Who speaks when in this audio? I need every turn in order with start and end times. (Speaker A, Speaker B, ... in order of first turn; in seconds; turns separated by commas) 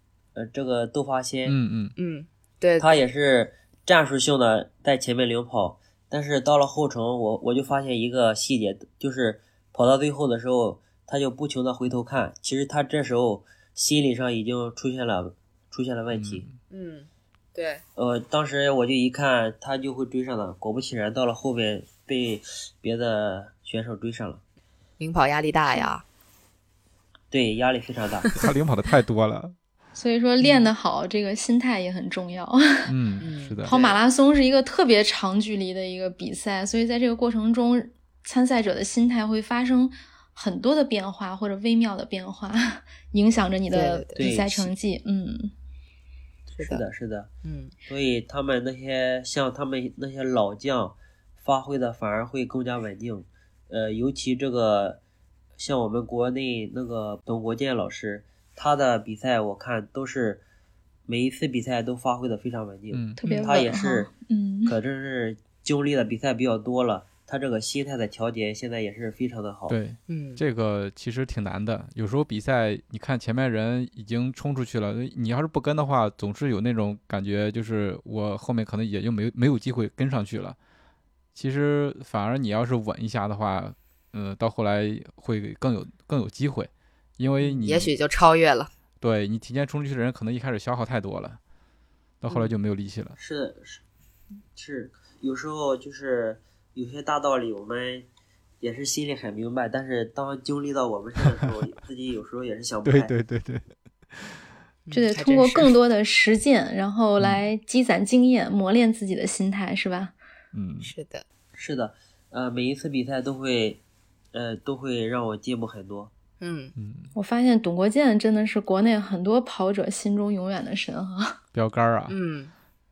Speaker A: 0.3-1.6, Speaker B: 1.4-1.9, Speaker C: 1.9-3.0, Speaker A: 2.8-16.4, Speaker B: 16.1-16.5, Speaker C: 16.7-17.8, Speaker A: 17.9-24.4, Speaker C: 25.0-26.0, Speaker A: 27.3-28.4, Speaker B: 28.3-29.5, Speaker D: 29.9-32.9, Speaker C: 30.4-30.7, Speaker B: 32.9-33.7, Speaker C: 33.2-34.0, Speaker D: 33.6-45.5, Speaker C: 43.7-44.2, Speaker A: 44.1-44.7, Speaker C: 46.5-46.8, Speaker A: 46.6-47.3, Speaker C: 47.4-47.7, Speaker A: 47.9-55.0, Speaker A: 55.6-60.4, Speaker A: 61.1-64.1, Speaker B: 62.9-63.2, Speaker D: 63.2-64.8, Speaker C: 63.2-63.5, Speaker A: 64.7-69.8, Speaker B: 69.7-80.6, Speaker C: 70.1-70.4, Speaker B: 81.3-87.9, Speaker C: 87.4-88.7, Speaker B: 89.0-91.4, Speaker B: 92.2-93.2, Speaker C: 92.3-92.5, Speaker A: 93.2-93.8, Speaker A: 94.5-98.0, Speaker A: 98.6-103.1, Speaker B: 102.8-104.4, Speaker C: 104.8-105.7, Speaker D: 104.9-110.1, Speaker B: 107.2-107.4, Speaker B: 110.5-110.9, Speaker C: 110.8-111.2, Speaker A: 111.5-113.8, Speaker A: 114.3-116.1, Speaker C: 116.4-116.7, Speaker B: 116.8-117.1, Speaker D: 117.1-121.4, Speaker B: 121.5-122.2, Speaker C: 122.1-122.5